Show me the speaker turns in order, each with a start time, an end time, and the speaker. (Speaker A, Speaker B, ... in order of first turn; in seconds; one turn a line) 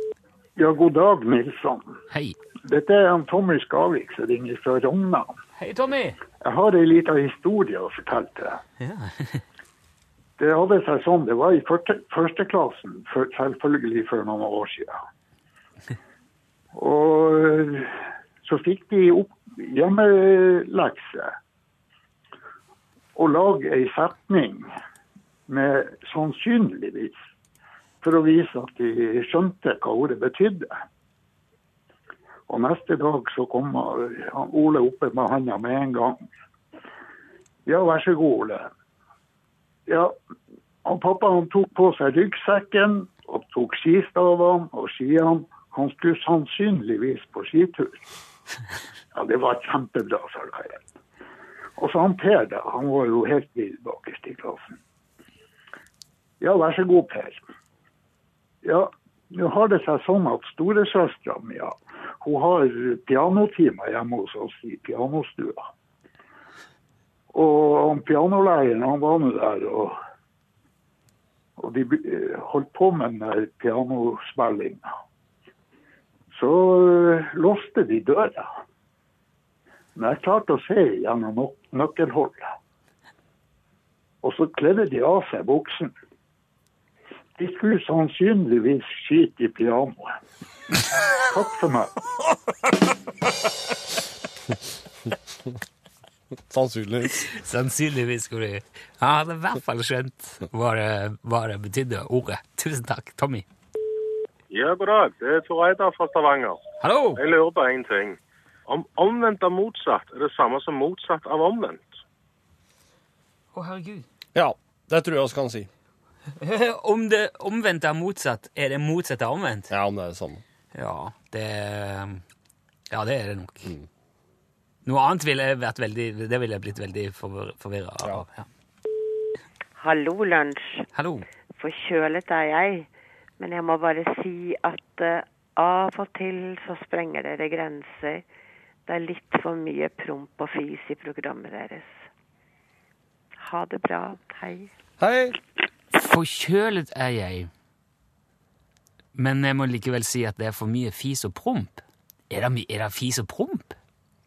Speaker A: 0.6-1.9
Speaker B: 2.1-2.4
Speaker A: 2.7-5.3
Speaker B: 5.6-6.2
Speaker A: 6.4-8.6
Speaker B: 8.8-9.4
Speaker A: 10.4-15.0
Speaker A: 16.7-21.4
Speaker A: 23.2-24.7
Speaker A: 25.5-27.2
Speaker A: 28.0-30.8
Speaker A: 32.5-36.2
Speaker A: 37.7-38.7
Speaker A: 39.9-40.2
Speaker A: 40.9-48.0
Speaker A: 49.1-50.9
Speaker A: 51.8-54.8
Speaker A: 56.4-57.5
Speaker A: 58.6-65.7
Speaker A: 67.3-70.0
Speaker A: 71.6-74.9
Speaker A: 76.3-78.6
Speaker A: 80.0-82.5
Speaker A: 84.2-85.9
Speaker A: 87.4-90.1
Speaker A: 91.2-91.9
Speaker C: 96.5-97.2
Speaker B: 97.2-103.5
Speaker D: 104.5-106.6
Speaker B: 106.8-107.2
Speaker D: 107.2-112.0
Speaker B: 113.5-114.1
Speaker C: 114.3-115.7
Speaker B: 116.4-119.7
Speaker C: 119.7-120.4
Speaker B: 120.7-122.2
Speaker B: 122.9-123.7
Speaker B: 124.8-128.5
Speaker E: 129.8-130.8
Speaker B: 130.9-131.3
Speaker E: 131.6-132.9
Speaker E: 133.4-138.2
Speaker E: 138.9-141.9
Speaker E: 143.4-144.7
Speaker C: 145.0-145.4
Speaker B: 145.9-147.5
Speaker B: 149.2-153.8